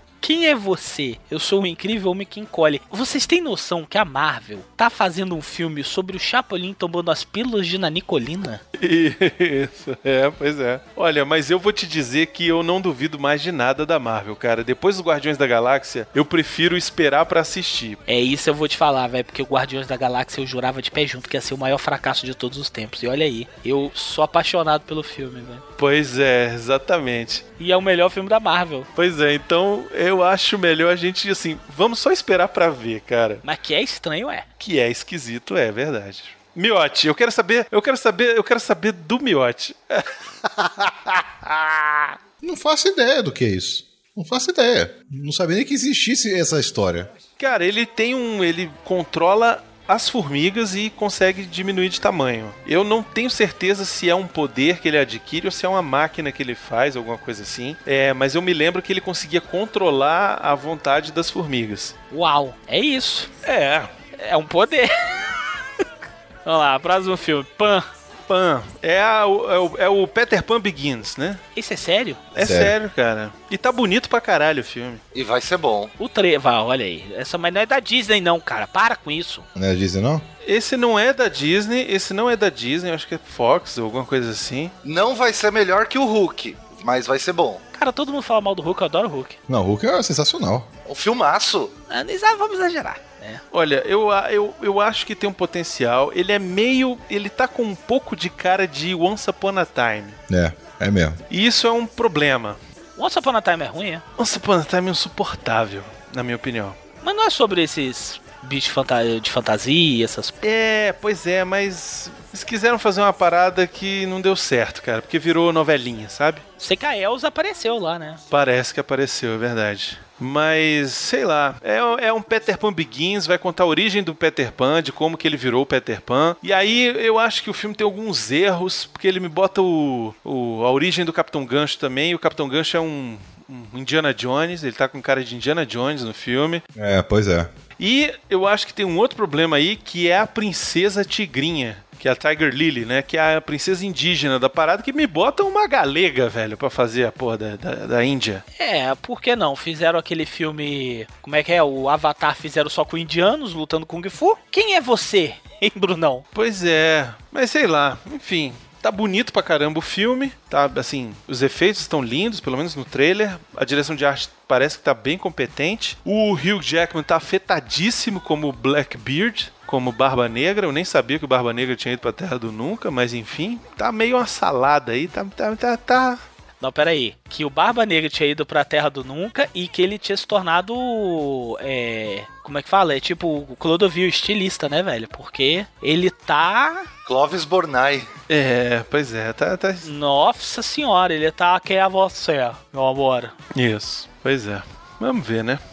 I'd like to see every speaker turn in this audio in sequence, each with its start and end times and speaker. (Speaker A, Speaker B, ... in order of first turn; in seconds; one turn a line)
Speaker A: 0.2-8.6
Speaker B: 8.8-18.0
Speaker A: 18.1-25.6
Speaker B: 25.8-27.4
Speaker A: 27.6-28.9
Speaker B: 28.9-33.4
Speaker A: 33.4-34.5
Speaker B: 34.6-40.1
Speaker C: 42.4-47.1
Speaker B: 47.4-62.0
Speaker A: 62.1-63.3
Speaker B: 63.4-63.9
Speaker A: 64.2-65.3
Speaker A: 66.4-67.9
Speaker B: 68.3-71.4
Speaker A: 71.5-72.3
Speaker B: 72.3-75.0
Speaker C: 72.4-72.7
Speaker D: 75.1-75.9
Speaker A: 76.0-79.5
Speaker C: 79.5-80.2
Speaker B: 80.4-84.7
Speaker D: 84.8-87.6
Speaker A: 87.7-89.4
Speaker C: 89.5-90.7
Speaker D: 90.8-91.7
Speaker A: 91.9-93.4
Speaker B: 93.5-100.2
Speaker C: 100.3-101.2
Speaker B: 101.3-102.6
Speaker A: 103.0-104.0
Speaker B: 104.2-106.8
Speaker A: 107.0-110.3
Speaker B: 110.4-116.4
Speaker A: 116.6-118.2
Speaker B: 118.3-136.6
Speaker C: 136.8-137.5
Speaker B: 137.8-148.4
Speaker A: 148.6-156.2
Speaker B: 156.3-176.2
Speaker A: 176.6-186.9
Speaker D: 187.1-188.1
Speaker B: 188.3-189.9
Speaker A: 189.8-193.3
Speaker B: 193.5-195.6